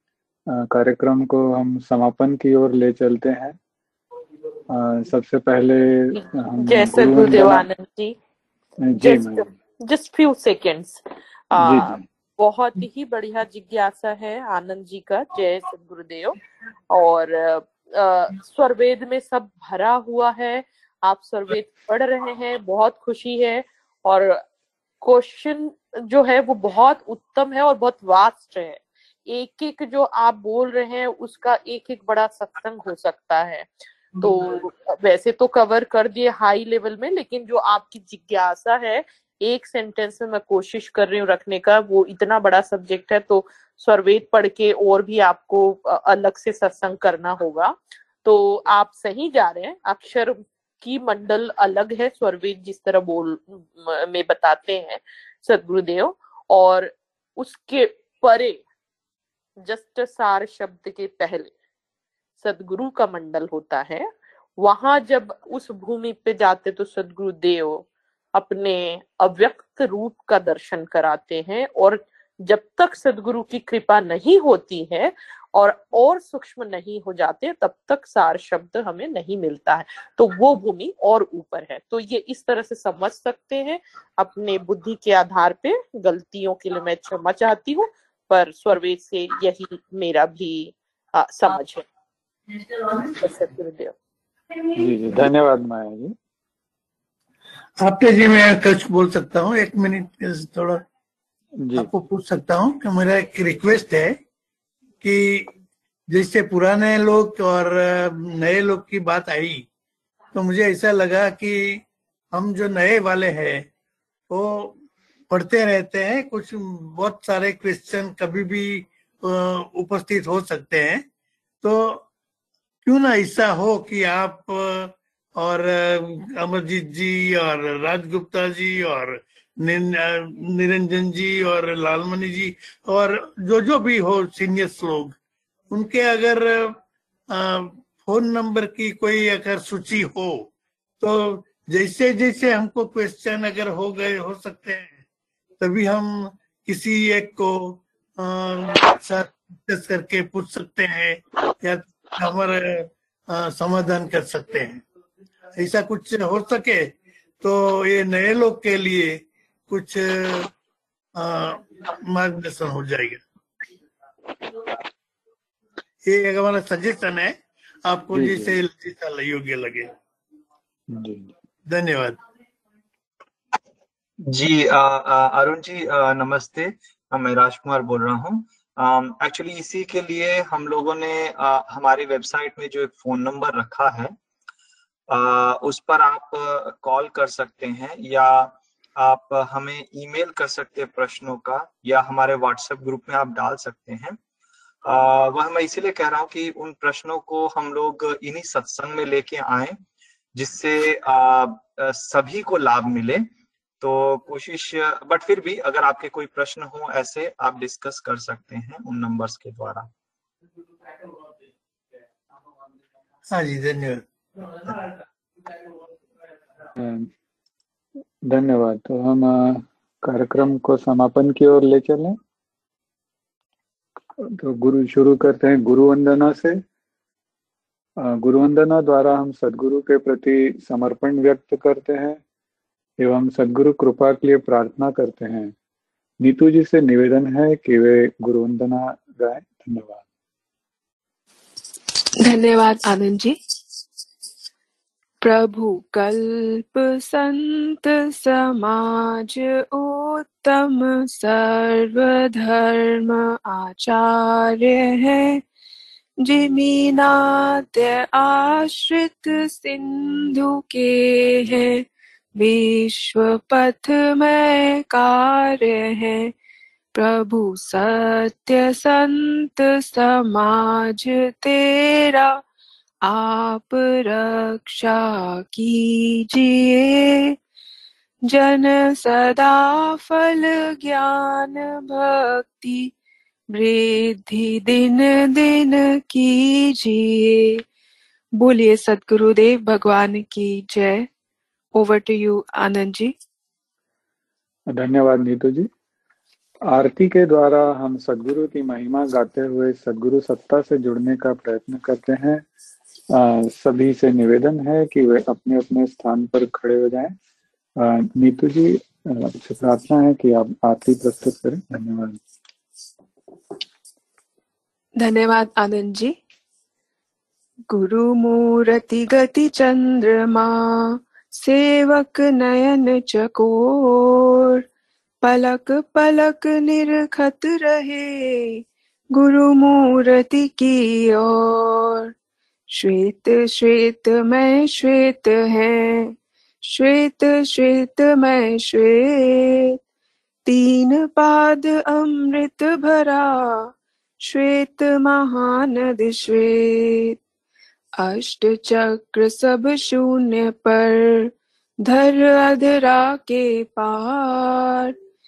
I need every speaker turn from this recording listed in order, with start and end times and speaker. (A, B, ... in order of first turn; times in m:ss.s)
0:00.5-0:03.6 A
0:04.7-0:07.7 A
0:06.1-0:08.2 B
0:08.8-0:09.5 A
0:09.0-0:16.4 B
0:11.6-0:12.0 A
0:16.9-0:24.4 B
0:25.0-0:58.6 B
0:59.6-1:01.5 B
1:02.4-1:31.8 B
1:32.8-1:33.9 B
1:34.7-1:36.2 A
1:37.8-1:40.8 C
1:41.6-1:41.9 A
1:41.8-1:44.2 C
1:45.0-1:45.5 C
1:46.1-1:49.6 C
1:50.3-1:51.8 C
1:52.3-1:53.7 C
1:54.3-1:54.8 C
1:55.3-2:01.0 C
2:01.6-2:02.0 C
2:02.8-2:15.2 C
2:15.7-2:16.8 C
2:17.3-2:20.5 C
2:21.0-2:25.0 C
2:25.6-2:34.8 C
2:35.6-2:36.9 C
2:37.4-2:40.5 C
2:41.2-2:43.2 C
2:46.1-2:49.9 C
2:48.1-2:48.6 A
2:50.9-2:51.3 A
2:51.7-2:52.2 C
2:54.3-3:04.2 D
3:05.1-3:14.2 D
3:14.8-3:19.8 D
3:20.4-3:23.3 D
3:23.8-3:29.9 D
3:33.3-3:34.0 C
3:34.6-3:34.9 C
3:36.8-3:37.1 A
3:38.3-3:42.2 A
3:44.2-3:46.6 A
3:48.0-3:52.2 A
3:53.0-3:55.5 A
3:56.2-4:00.0 A
4:02.2-4:03.4 E
4:05.2-4:15.4 E
4:16.2-4:21.8 E
4:22.4-4:26.3 E
4:27.0-4:32.4 E
4:33.1-4:37.4 E
4:38.3-4:42.9 E
4:43.5-4:47.6 E
4:48.4-4:51.1 E
4:51.8-4:53.1 E
4:54.7-4:55.7 A
4:56.7-5:02.5 A
5:03.1-5:07.2 A
5:07.8-5:12.2 A
5:15.0-5:16.2 E
5:17.7-5:24.6 E
5:25.2-5:28.6 E
5:29.2-5:32.1 E
5:32.8-5:39.8 E
5:40.5-5:43.7 E
5:44.3-5:47.2 E
5:48.0-5:51.3 E
5:51.8-5:55.0 E